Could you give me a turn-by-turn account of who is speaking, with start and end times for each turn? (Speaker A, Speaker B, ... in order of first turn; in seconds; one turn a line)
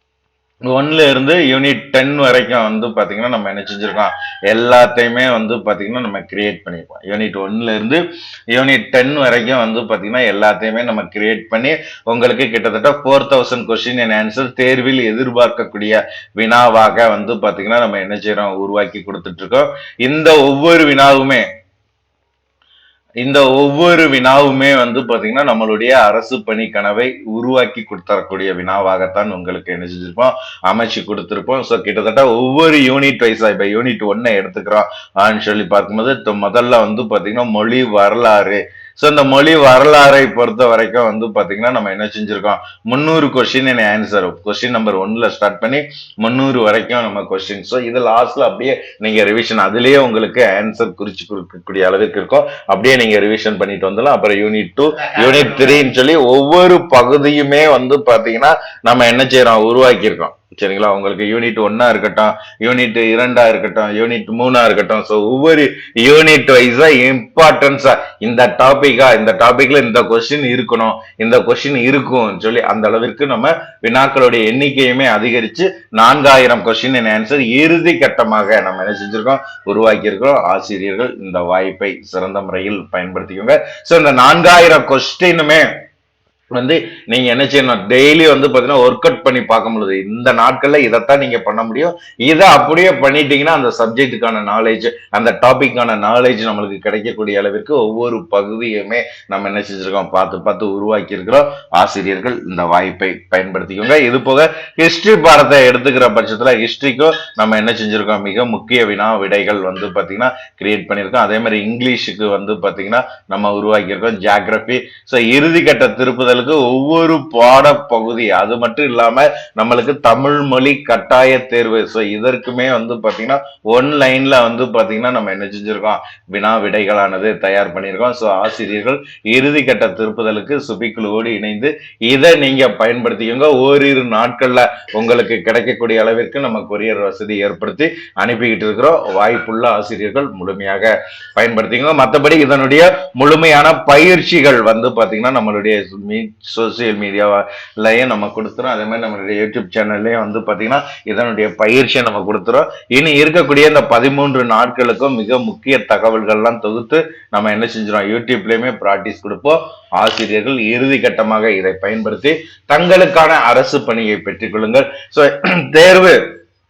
Speaker A: 0.7-8.0
Speaker A: 8.5-21.4
Speaker A: 23.2-85.7
Speaker A: 86.5-166.2